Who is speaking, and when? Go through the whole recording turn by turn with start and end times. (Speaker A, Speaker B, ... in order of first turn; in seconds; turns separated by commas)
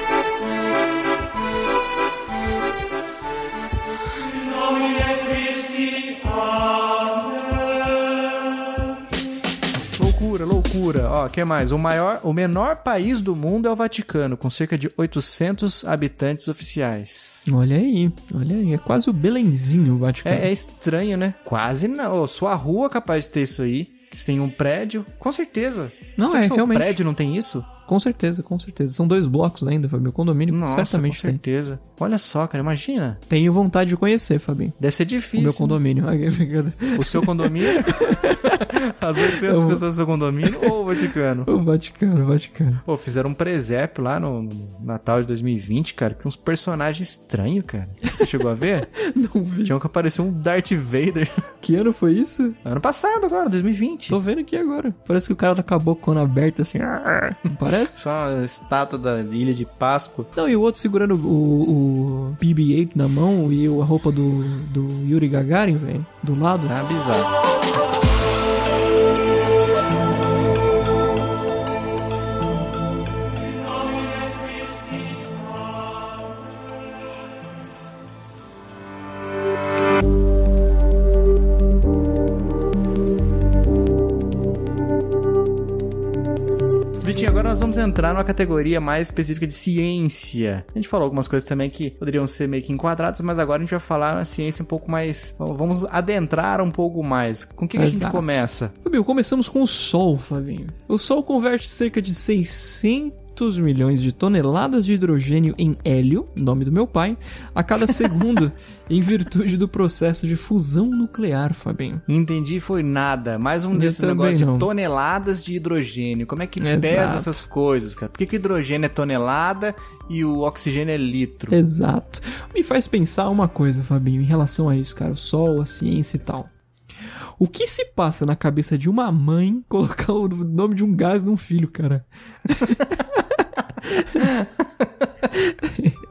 Speaker A: 9.9-17.5, Speaker B: 17.5-20.5, Speaker A: 20.2-27.7, Speaker B: 26.1-27.0, Speaker B: 27.9-31.4, Speaker A: 30.5-33.2, Speaker B: 33.3-34.7, Speaker A: 34.8-35.8, Speaker B: 35.3-38.6, Speaker A: 37.0-41.5, Speaker B: 39.2-39.8, Speaker B: 41.5-42.8, Speaker A: 42.8-48.9, Speaker B: 49.0-49.7, Speaker A: 49.6-51.5, Speaker B: 51.6-52.6, Speaker A: 52.6-54.2, Speaker B: 54.1-58.0, Speaker A: 57.9-60.3, Speaker B: 60.4-66.7, Speaker A: 66.7-67.3, Speaker A: 87.0-98.7, Speaker B: 97.8-112.0, Speaker A: 112.1-121.6, Speaker B: 113.7-114.7, Speaker B: 116.6-117.4, Speaker B: 121.5-126.5, Speaker B: 127.4-134.2, Speaker A: 134.2-135.1, Speaker B: 135.4-136.0